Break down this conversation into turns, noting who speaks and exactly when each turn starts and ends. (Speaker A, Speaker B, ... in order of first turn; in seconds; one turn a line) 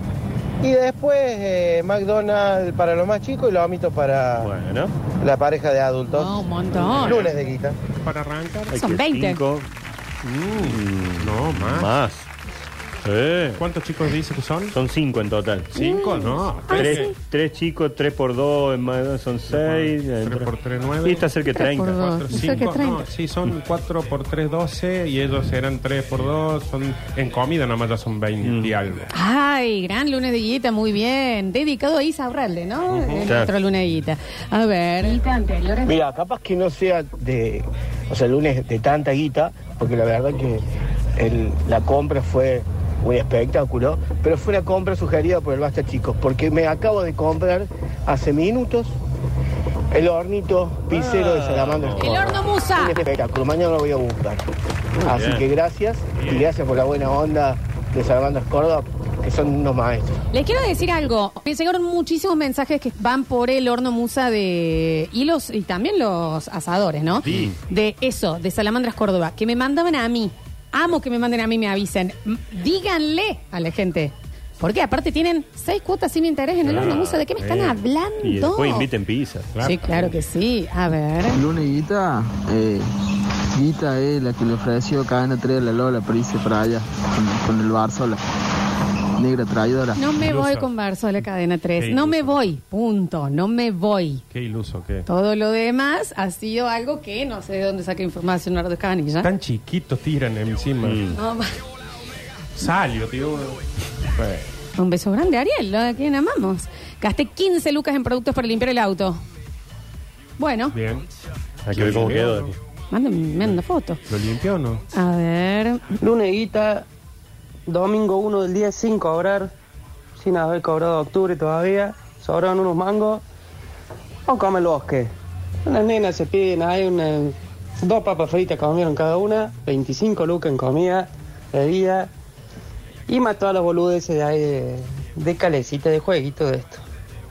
Speaker A: 0.6-4.5
Speaker B: 4.4-4.9
Speaker A: 5.2-6.4
Speaker C: 6.0-7.3
Speaker D: 6.9-7.3
Speaker A: 7.1-7.8
Speaker D: 7.9-8.7
Speaker B: 8.7-9.7
Speaker C: 8.7-9.4
Speaker D: 10.2-11.9
Speaker B: 10.7-12.3
Speaker B: 13.0-13.6
Speaker D: 13.6-14.8
Speaker B: 14.7-15.7
Speaker D: 15.7-17.1
Speaker C: 15.7-17.1
Speaker B: 16.7-20.5
Speaker D: 19.5-21.3
Speaker B: 21.0-22.6
Speaker C: 21.5-23.1
Speaker D: 21.9-29.1
Speaker B: 28.4-28.7
Speaker C: 29.1-35.9
Speaker B: 33.2-33.5
Speaker E: 35.9-40.6
Speaker E: 41.2-48.9
Speaker E: 49.9-54.4
Speaker B: 50.9-52.4
Speaker C: 52.0-53.0
Speaker E: 55.0-60.2
Speaker B: 55.0-55.4
Speaker D: 56.2-56.5
Speaker C: 60.3-78.9
Speaker B: 76.6-77.2
Speaker D: 77.3-77.8
Speaker B: 78.2-79.5
Speaker D: 79.5-80.1
Speaker C: 79.6-81.4
Speaker F: 81.4-82.8
Speaker F: 83.6-88.2
Speaker F: 89.2-90.0
Speaker C: 90.0-94.2
Speaker D: 90.1-90.7
Speaker D: 91.8-92.4
Speaker D: 94.3-95.0
Speaker C: 95.1-99.3
Speaker D: 99.2-101.0
Speaker B: 100.8-101.2
Speaker C: 101.1-101.6
Speaker D: 102.5-103.7
Speaker D: 104.2-104.5
Speaker C: 104.8-109.2
Speaker C: 110.4-110.8
Speaker D: 110.7-111.0
Speaker B: 111.7-112.6
Speaker D: 111.7-112.5
Speaker C: 112.9-114.0
Speaker D: 113.4-114.8
Speaker C: 114.9-115.8
Speaker G: 116.0-116.8
Speaker G: 117.7-119.5
Speaker G: 120.2-123.2
Speaker G: 124.3-125.1
Speaker G: 125.7-132.1
Speaker G: 133.1-136.8